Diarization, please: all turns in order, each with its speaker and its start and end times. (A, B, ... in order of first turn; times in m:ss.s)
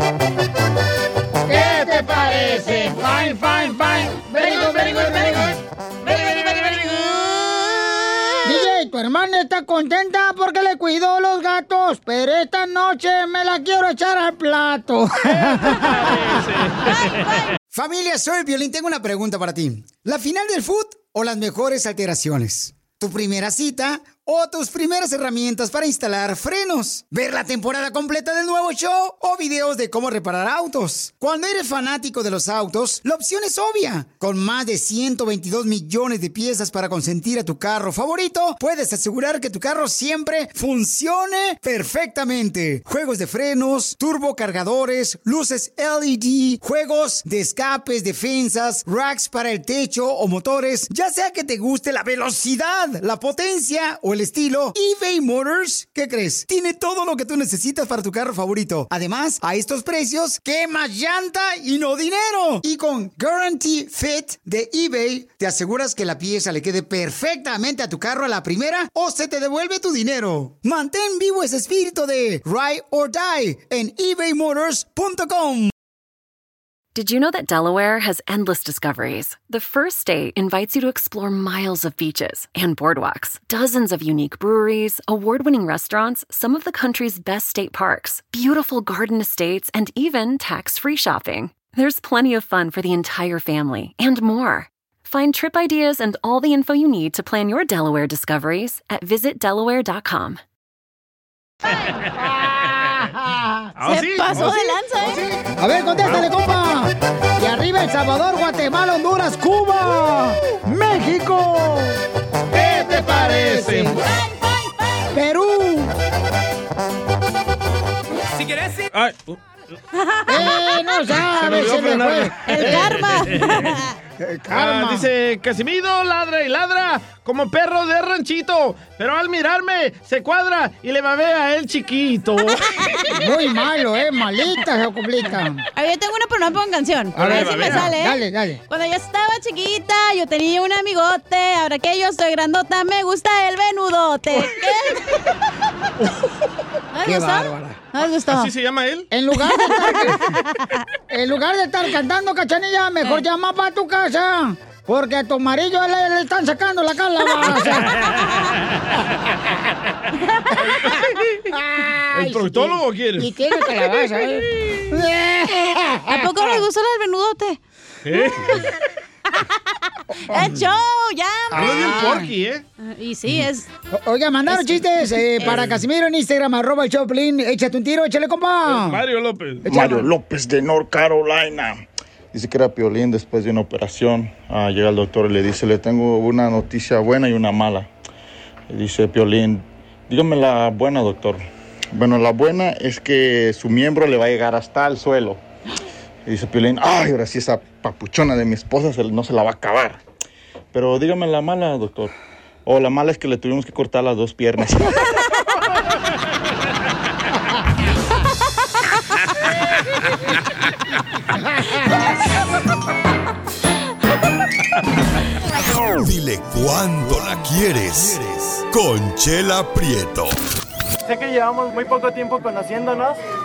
0:01.5-0:05.5 A
0:04.2-0:08.7 B
0:08.4-0:16.2 A
0:15.7-0:17.5 C
0:16.8-0:17.6 B
0:17.7-1:15.7 A
1:17.0-1:40.4 D
1:41.9-1:43.1 C
1:43.0-1:43.7 A
1:43.8-1:45.4 C
1:43.8-1:45.3 B
1:45.6-1:52.0 A
1:45.9-1:46.4 C
1:52.5-1:54.1 C
1:52.6-1:54.0 A
1:54.1-1:55.1 B
1:55.1-1:55.9 A
1:58.9-1:59.4 C
2:00.0-2:01.0 B
2:00.3-2:02.8 A
2:01.1-2:03.8 C
2:02.5-2:03.9 B
2:04.2-2:05.1 A
2:04.5-2:12.8 C
2:13.2-2:15.6 A
2:15.8-2:25.0 B
2:17.2-2:17.9 C
2:17.2-2:18.6 A
2:26.9-2:28.5 B
2:27.0-2:27.8 A
2:28.0-2:29.1 C
2:29.1-2:30.2 A
2:29.4-2:30.8 B
2:31.1-2:37.9 A
2:37.9-2:38.6 C
2:41.5-2:46.2 A
2:42.1-2:43.3 C
2:46.1-2:47.6 B
2:48.0-2:48.6 C
2:48.2-2:48.7 B
2:50.3-2:50.6 A
2:50.3-2:52.2 B
2:51.5-2:52.6 C
2:51.5-2:52.3 A
2:52.8-2:53.7 B
2:53.9-2:59.0 A
2:54.5-2:55.6 B
2:55.4-2:55.8 C
2:58.6-2:59.9 C
2:59.7-3:00.0 A
2:59.7-3:01.8 E
3:02.3-3:07.9 E
3:08.7-3:15.4 E
3:16.3-3:20.0 E
3:20.7-3:22.1 E
3:22.7-3:25.0 E
3:35.8-3:40.4 F
3:41.0-3:43.2 G